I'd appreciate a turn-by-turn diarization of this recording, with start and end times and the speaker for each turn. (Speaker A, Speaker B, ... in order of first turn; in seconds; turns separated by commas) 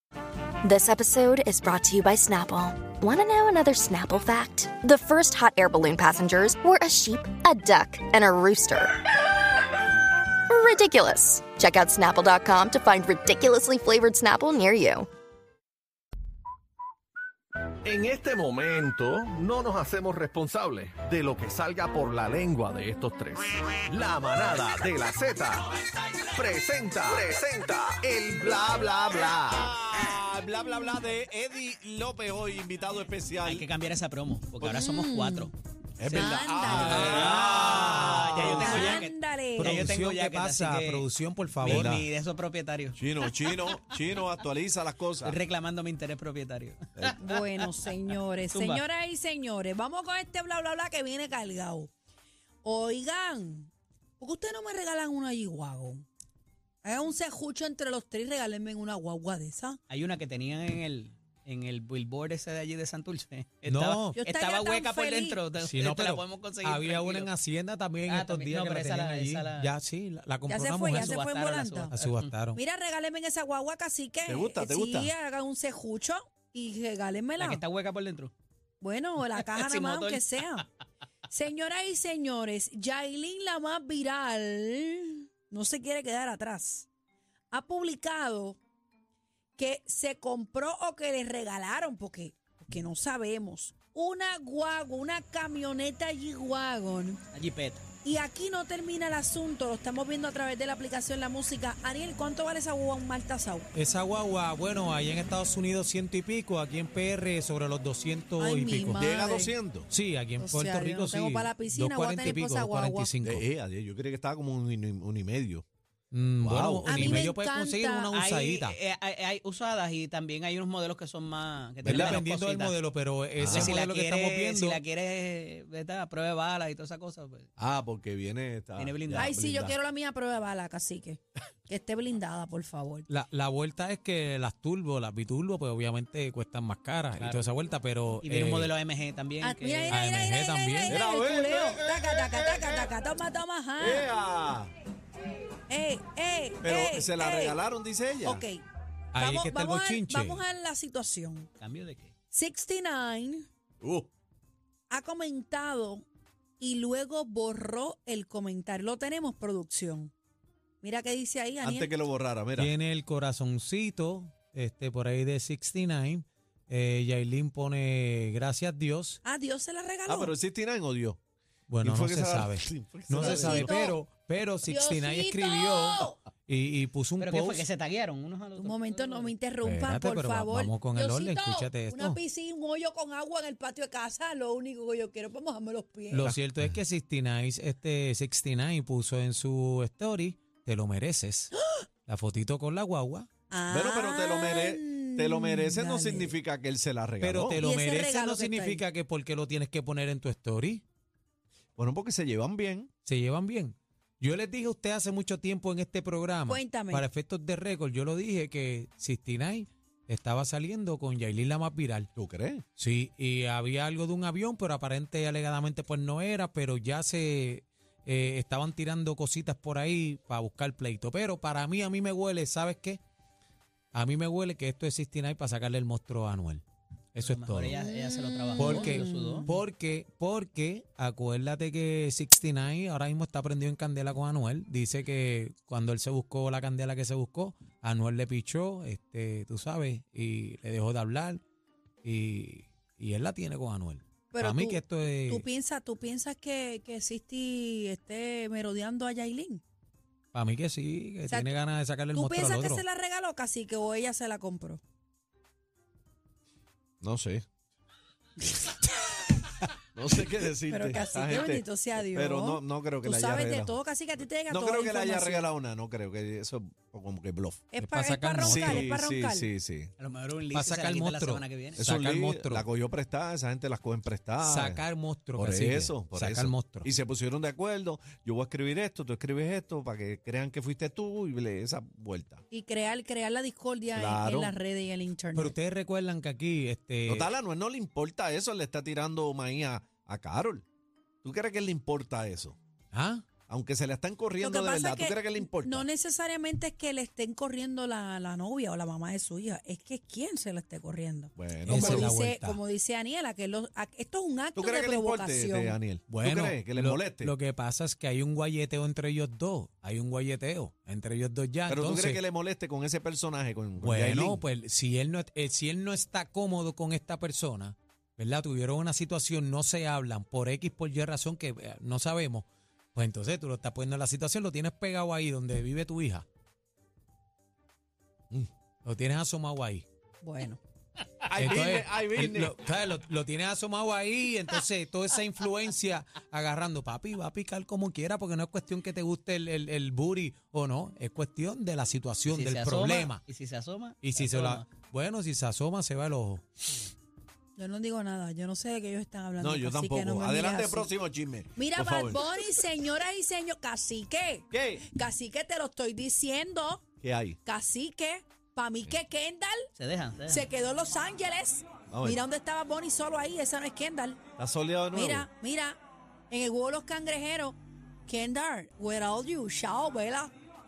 Speaker A: 0.6-8.9, Speaker A: 10.5-15.1, Speaker B: 17.8-25.7, Speaker B: 26.2-29.7, Speaker C: 28.4-33.6, Speaker D: 33.4-41.1, Speaker E: 34.6-35.5, Speaker C: 36.0-38.9, Speaker E: 36.1-37.2, Speaker F: 36.8-39.0, Speaker E: 38.4-39.9, Speaker F: 39.6-42.0, Speaker C: 41.6-42.0, Speaker D: 41.6-43.8, Speaker C: 42.9-45.4, Speaker D: 45.2-47.7, Speaker E: 47.2-51.9, Speaker D: 48.5-48.8, Speaker E: 52.6-56.1, Speaker E: 56.8-59.8, Speaker D: 59.9-67.3, Speaker F: 63.6-64.2, Speaker E: 64.2-65.4, Speaker F: 65.6-71.2, Speaker D: 68.0-69.7, Speaker E: 70.5-71.9, Speaker D: 70.9-72.3, Speaker F: 71.9-72.6, Speaker E: 72.5-77.6, Speaker C: 74.3-75.1, Speaker D: 77.4-78.3, Speaker E: 78.8-80.7, Speaker D: 79.4-80.4, Speaker E: 81.3-86.9, Speaker E: 87.5-88.6, Speaker E: 89.5-97.2, Speaker D: 97.3-97.8, Speaker E: 98.0-103.7, Speaker F: 103.7-109.0, Speaker E: 108.4-109.5, Speaker C: 108.9-109.9, Speaker F: 109.9-113.4, Speaker E: 110.4-113.1, Speaker C: 113.2-115.6, Speaker F: 116.1-118.8, Speaker C: 116.4-117.3, Speaker E: 116.8-118.1, Speaker D: 118.1-122.8, Speaker C: 121.8-122.2, Speaker F: 121.8-124.8, Speaker C: 123.4-123.7, Speaker D: 123.4-127.5, Speaker C: 127.6-129.8, Speaker D: 128.8-129.3, Speaker E: 129.2-133.1, Speaker F: 133.1-138.7, Speaker D: 137.2-137.5, Speaker D: 138.2-140.0, Speaker E: 139.4-144.1, Speaker F: 139.9-141.0, Speaker C: 140.9-142.9, Speaker C: 143.8-144.7, Speaker E: 145.7-147.6, Speaker C: 146.6-148.4, Speaker E: 148.2-148.6, Speaker F: 149.1-150.4, Speaker E: 149.2-151.5, Speaker D: 151.6-152.1, Speaker E: 152.3-153.5, Speaker C: 153.8-154.1, Speaker E: 154.9-156.1, Speaker E: 156.6-160.1, Speaker E: 160.8-161.9, Speaker C: 161.6-162.7, Speaker F: 162.6-169.2, Speaker E: 169.2-170.3, Speaker C: 170.1-171.2, Speaker F: 171.7-177.6, Speaker C: 171.8-173.8, Speaker E: 173.2-174.0, Speaker E: 174.7-176.2, Speaker D: 177.2-179.3, Speaker E: 178.6-186.3, Speaker F: 179.6-182.2, Speaker F: 186.1-191.5, Speaker F: 192.1-193.3, Speaker E: 193.5-196.3, Speaker C: 193.7-197.6, Speaker F: 197.2-200.8, Speaker E: 197.6-198.8, Speaker C: 201.8-202.9, Speaker F: 203.0-212.1, Speaker E: 206.5-207.1, Speaker C: 212.2-212.6, Speaker F: 212.8-223.0, Speaker F: 223.9-226.6, Speaker F: 227.1-227.7, Speaker D: 227.2-229.5, Speaker E: 227.7-229.6, Speaker F: 228.6-241.4, Speaker F: 242.0-245.4, Speaker E: 244.3-249.6, Speaker F: 250.3-252.8, Speaker E: 251.3-251.6, Speaker E: 252.1-254.8, Speaker C: 257.0-257.4, Speaker C: 259.9-263.8, Speaker E: 260.7-265.5, Speaker C: 264.5-267.6, Speaker E: 267.7-269.5, Speaker F: 267.8-268.9, Speaker C: 268.4-269.9, Speaker D: 270.0-271.8, Speaker F: 270.5-272.6, Speaker C: 271.8-274.8, Speaker F: 274.4-276.9, Speaker C: 275.4-282.4, Speaker E: 282.5-285.5, Speaker C: 283.9-284.5, Speaker F: 285.4-287.3, Speaker C: 287.1-290.6, Speaker C: 291.2-292.6, Speaker F: 292.9-293.2, Speaker C: 293.5-295.9, Speaker E: 294.4-305.8, Speaker C: 301.4-302.1, Speaker F: 301.6-302.6, Speaker C: 304.5-307.3, Speaker F: 306.1-312.2, Speaker C: 311.7-314.4, Speaker F: 313.8-326.2, Speaker F: 328.8-329.9, Speaker E: 330.2-330.6, Speaker C: 331.3-332.5, Speaker F: 331.4-343.2, Speaker D: 342.3-344.7, Speaker F: 344.0-346.4, Speaker E: 347.6-350.9, Speaker C: 349.4-352.5, Speaker E: 351.6-356.8, Speaker C: 354.5-354.8, Speaker C: 357.0-357.4, Speaker E: 357.4-359.7, Speaker D: 359.8-360.4, Speaker E: 360.3-364.2, Speaker C: 361.9-362.2, Speaker C: 364.4-365.3, Speaker E: 364.9-370.3